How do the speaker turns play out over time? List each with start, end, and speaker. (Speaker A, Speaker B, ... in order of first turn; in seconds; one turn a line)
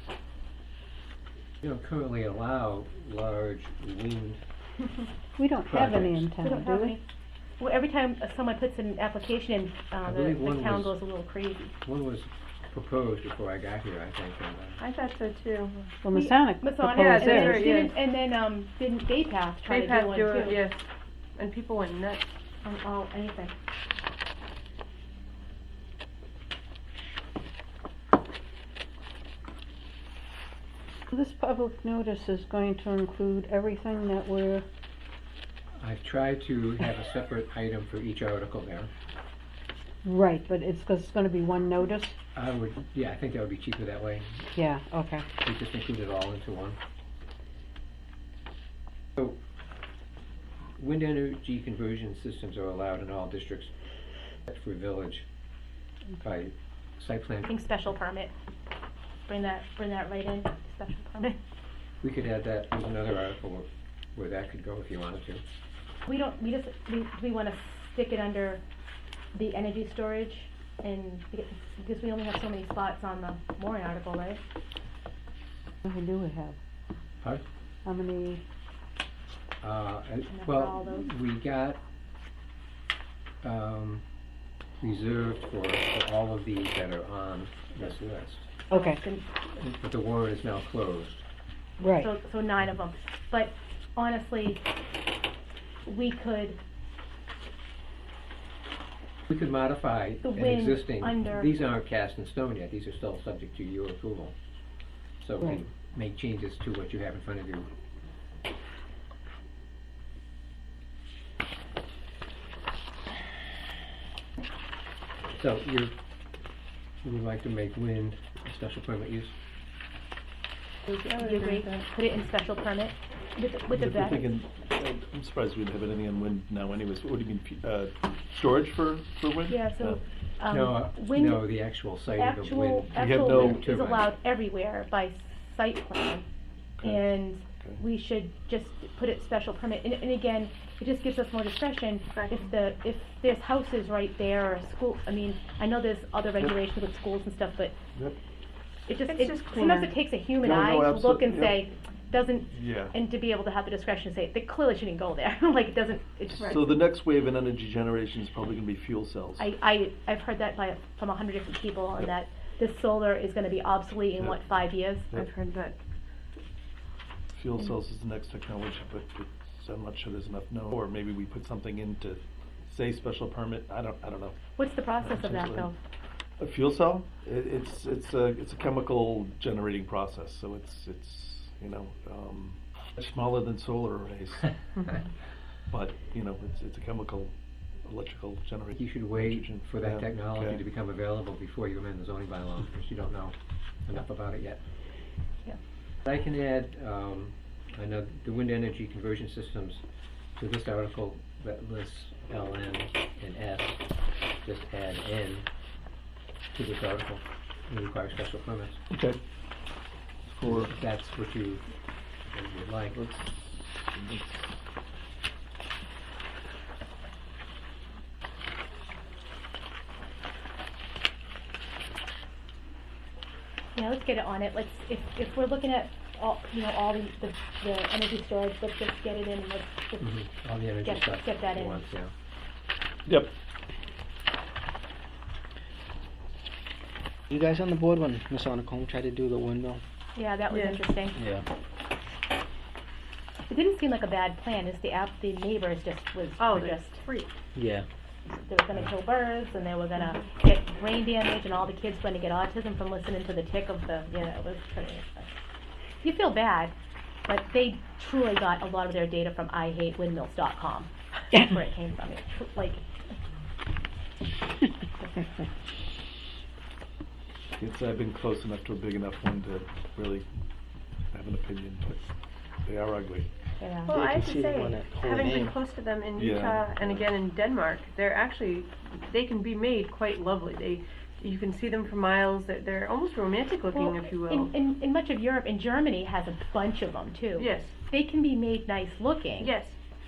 Speaker A: 1.6-4.4
Speaker B: 5.4-7.0
Speaker A: 5.6-6.3
Speaker C: 6.4-7.0
Speaker C: 7.6-11.7
Speaker A: 10.0-11.0
Speaker A: 11.8-14.8
Speaker D: 14.8-15.8
Speaker B: 16.0-17.6
Speaker C: 16.1-20.6
Speaker D: 16.9-17.9
Speaker D: 19.7-22.2
Speaker C: 22.6-23.5
Speaker B: 31.1-34.6
Speaker A: 35.8-38.9
Speaker B: 40.0-42.1
Speaker A: 42.3-44.5
Speaker B: 44.5-45.2
Speaker A: 45.4-46.8
Speaker A: 50.8-53.7
Speaker A: 54.5-55.2
Speaker A: 56.2-57.5
Speaker C: 57.4-58.3
Speaker C: 59.3-61.4
Speaker A: 62.0-65.4
Speaker C: 66.0-68.6
Speaker C: 69.3-74.4
Speaker B: 75.8-76.6
Speaker B: 77.8-78.4
Speaker A: 79.6-81.8
Speaker C: 80.3-81.1
Speaker A: 83.4-84.0
Speaker A: 84.8-88.5
Speaker B: 88.7-89.0
Speaker C: 88.7-89.3
Speaker A: 89.6-91.2
Speaker B: 91.8-92.1
Speaker C: 92.0-94.6
Speaker C: 95.8-96.6
Speaker A: 99.3-104.3
Speaker C: 100.2-101.5
Speaker A: 105.2-107.7
Speaker A: 115.4-115.9
Speaker A: 117.0-119.3
Speaker D: 120.9-121.8
Speaker C: 121.2-124.3
Speaker E: 123.7-130.0
Speaker C: 129.5-131.4
Speaker A: 130.5-134.1
Speaker C: 132.2-136.2
Speaker E: 132.9-133.6
Speaker E: 136.8-137.0
Speaker C: 136.8-147.8
Speaker D: 142.1-142.5
Speaker C: 148.9-156.8
Speaker D: 149.1-149.9
Speaker E: 150.4-151.6
Speaker E: 152.5-152.9
Speaker E: 156.3-159.5
Speaker C: 159.4-165.1
Speaker D: 165.1-165.8
Speaker E: 167.3-174.4
Speaker C: 174.6-175.7
Speaker E: 175.0-175.7
Speaker E: 176.4-184.5
Speaker E: 185.7-190.6
Speaker A: 188.8-193.3
Speaker A: 193.8-194.6
Speaker A: 196.0-199.8
Speaker A: 200.3-203.8
Speaker A: 204.4-205.5
Speaker A: 206.5-208.8
Speaker E: 208.9-209.2
Speaker E: 210.3-210.7
Speaker A: 210.4-211.7
Speaker A: 212.3-213.0
Speaker E: 212.9-214.5
Speaker C: 223.7-230.1
Speaker A: 230.0-232.1
Speaker C: 230.8-231.8
Speaker E: 233.1-233.3
Speaker F: 237.3-239.8
Speaker C: 240.1-241.2
Speaker D: 240.5-240.8
Speaker F: 241.1-241.4
Speaker C: 243.5-247.0
Speaker D: 246.4-247.3
Speaker F: 247.5-247.9
Speaker C: 248.3-255.3
Speaker C: 256.0-256.7
Speaker C: 257.2-262.8
Speaker B: 261.3-261.6
Speaker E: 267.6-270.2
Speaker E: 271.1-272.1
Speaker E: 272.6-273.3
Speaker C: 273.6-273.9
Speaker D: 273.8-284.5
Speaker F: 273.9-275.6
Speaker E: 276.1-277.1
Speaker C: 283.7-289.5
Speaker D: 287.4-287.8
Speaker D: 289.4-289.8